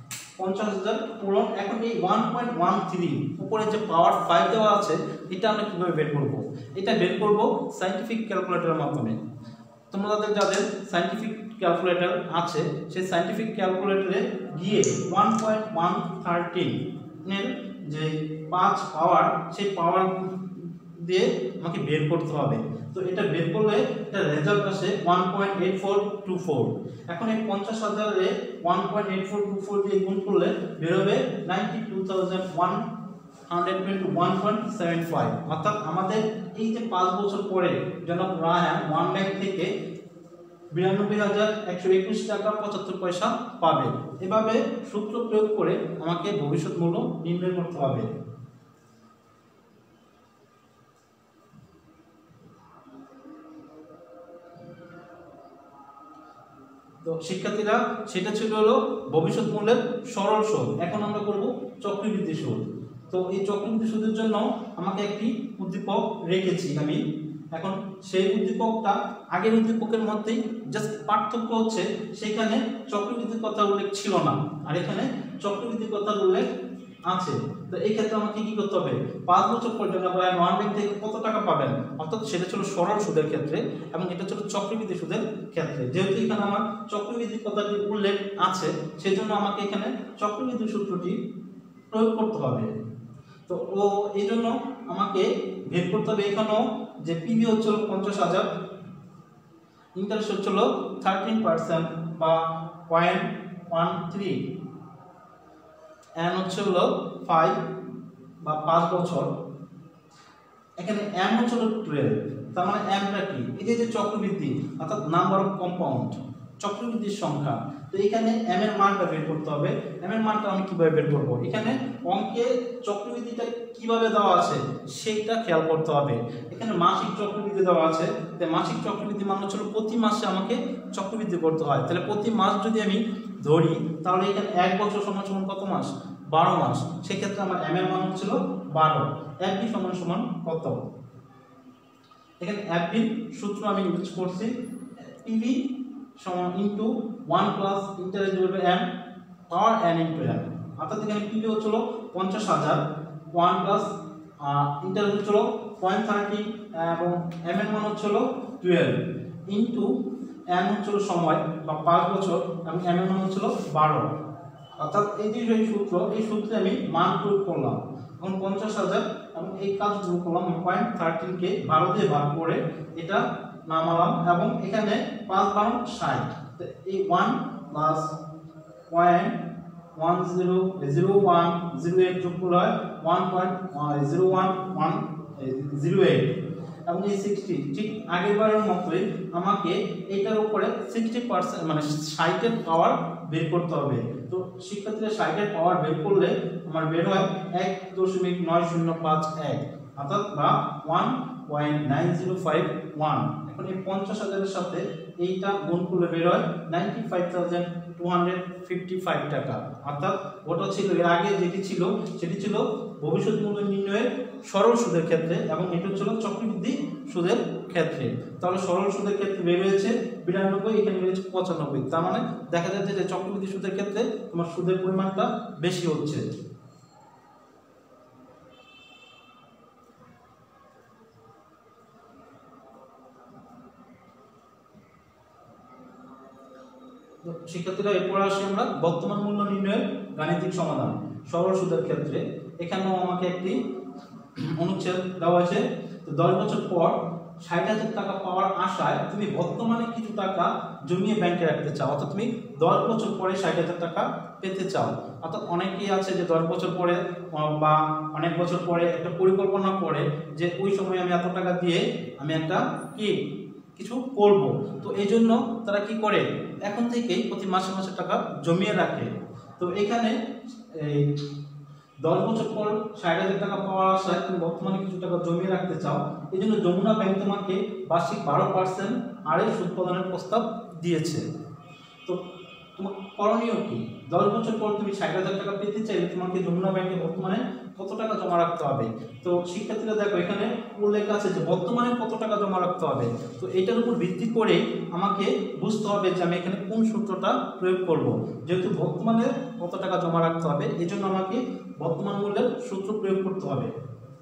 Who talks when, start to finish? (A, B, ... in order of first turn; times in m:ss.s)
0:00.4-0:09.2 A
0:09.9-0:32.8 A
0:33.5-0:39.7 A
0:40.7-0:48.1 A
0:57.0-1:07.0 A
1:07.5-1:16.5 A
1:17.1-1:31.2 A
1:31.9-1:32.7 A
1:33.5-1:38.5 A
1:40.0-1:44.5 A
1:46.2-1:47.6 A
1:48.4-1:49.3 A
1:50.8-2:20.8 A
2:22.4-2:24.5 A
2:25.1-2:28.9 A
2:29.5-2:32.8 A
2:33.3-2:39.9 A
2:40.5-2:44.1 A
2:44.8-2:58.2 A
2:58.9-2:59.4 A
3:00.0-3:06.4 A
3:06.9-3:46.2 A
3:57.2-4:03.6 A
4:04.4-4:23.2 A
4:23.8-4:30.2 A
4:30.7-4:31.2 A
4:32.0-4:41.2 A
4:42.8-5:03.7 A